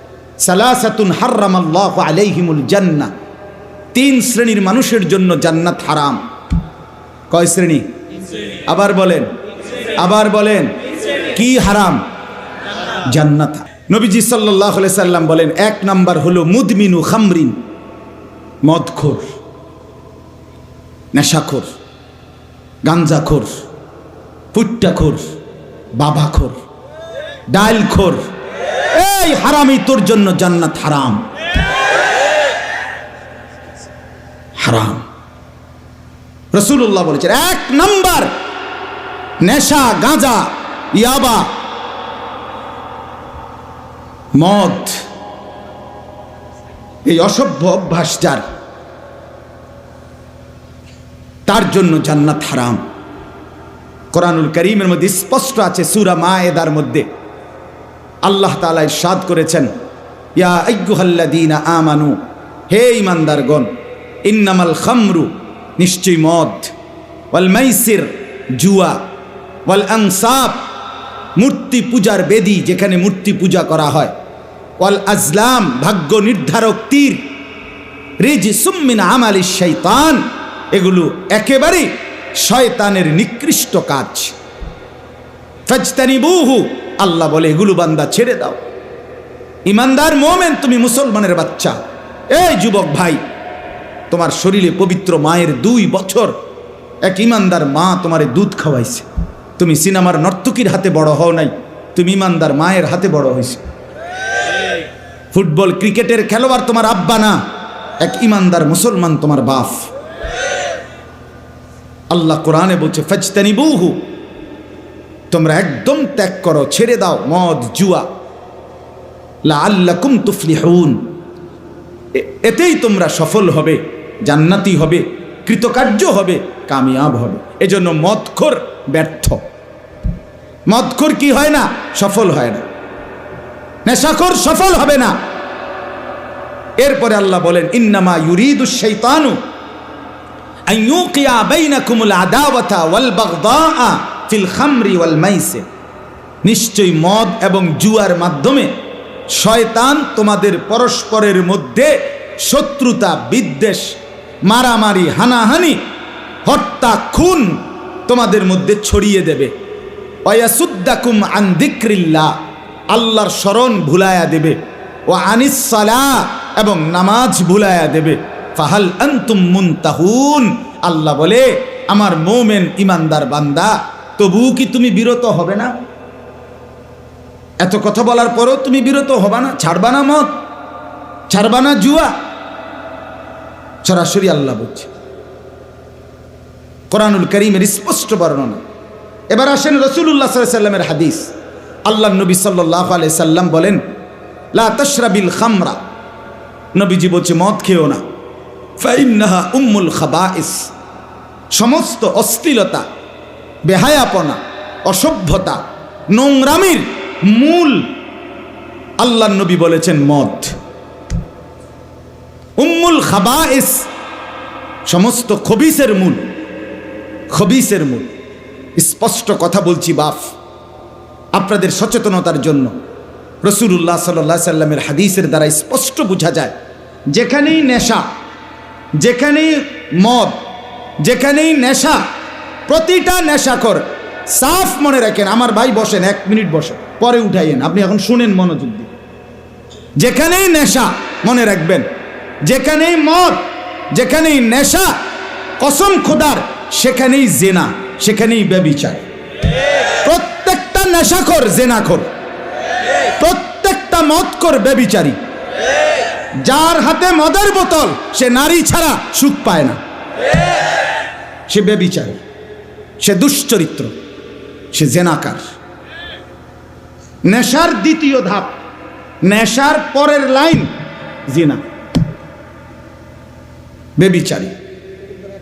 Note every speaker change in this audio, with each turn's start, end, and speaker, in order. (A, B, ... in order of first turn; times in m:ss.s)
0:00.4-0:03.1 A
0:03.9-0:06.2 A
0:07.3-0:07.8 A
0:08.7-0:09.3 A
0:10.0-0:10.7 A
0:11.3-0:12.0 A
0:13.1-0:17.6 A
0:18.6-0:19.2 A
0:21.1-0:21.7 A
0:22.8-0:23.5 A
0:24.5-0:25.2 A
0:26.0-0:26.6 A
0:27.5-0:28.2 A
0:28.9-0:31.2 A
0:34.6-0:35.0 A
0:36.5-0:38.3 A
0:39.4-0:41.5 A
0:44.4-0:45.0 A
0:47.0-0:48.4 A
0:51.5-0:52.8 A
0:54.1-0:57.1 A
0:58.2-0:59.7 A
1:00.4-1:02.2 A
1:02.7-1:03.7 A
1:04.2-1:06.7 A
1:07.3-1:09.0 A
1:09.7-1:10.6 A
1:11.4-1:14.1 A
1:14.8-1:17.2 A
1:18.2-1:21.9 A
1:22.4-1:24.4 A
1:25.7-1:28.6 A
1:29.7-1:31.8 A
1:32.3-1:33.2 A
1:34.1-1:36.3 A
1:37.0-1:39.1 A
1:39.6-1:43.6 A
1:45.3-1:47.4 A
1:48.0-1:49.9 A
1:52.1-1:54.1 A
1:55.3-1:58.1 A
1:59.4-2:01.0 A
2:02.1-2:09.4 A
2:10.7-2:12.6 A
2:13.9-2:15.2 A
2:16.8-2:19.4 A
2:20.7-2:25.6 A
2:26.4-2:28.7 A
2:29.3-2:33.9 A
2:34.5-2:35.8 A
2:36.4-2:39.5 A
2:40.2-2:42.3 A
2:42.9-2:44.6 A
2:45.1-2:55.7 A
2:57.6-3:00.3 A
3:01.3-3:02.1 A
3:03.8-3:04.9 A
3:06.9-3:08.6 A
3:09.3-3:11.3 A
3:11.9-3:13.8 A
3:14.5-3:15.8 A
3:16.7-3:18.0 A
3:18.8-3:20.7 A
3:21.5-3:22.8 A
3:23.7-3:25.6 A
3:26.1-3:27.9 A
3:29.0-3:30.5 A
3:32.6-3:33.8 A
3:34.9-3:36.3 A
3:37.3-3:38.1 A
3:38.8-3:40.2 A
3:41.4-3:42.7 A
3:43.4-3:46.5 A
3:47.1-3:48.0 A
3:49.0-3:50.4 A
3:51.0-3:52.0 A
3:52.7-3:58.9 A
4:00.0-4:01.8 A
4:02.4-4:04.9 A
4:05.6-4:09.0 A
4:10.0-4:12.1 A
4:13.2-4:15.2 A
4:16.4-4:19.8 A
4:21.5-4:22.2 A
4:23.0-4:23.9 A
4:24.7-4:25.4 A
4:27.3-4:28.6 A
4:29.2-4:30.7 A
4:31.3-4:31.6 A
4:34.0-4:34.5 A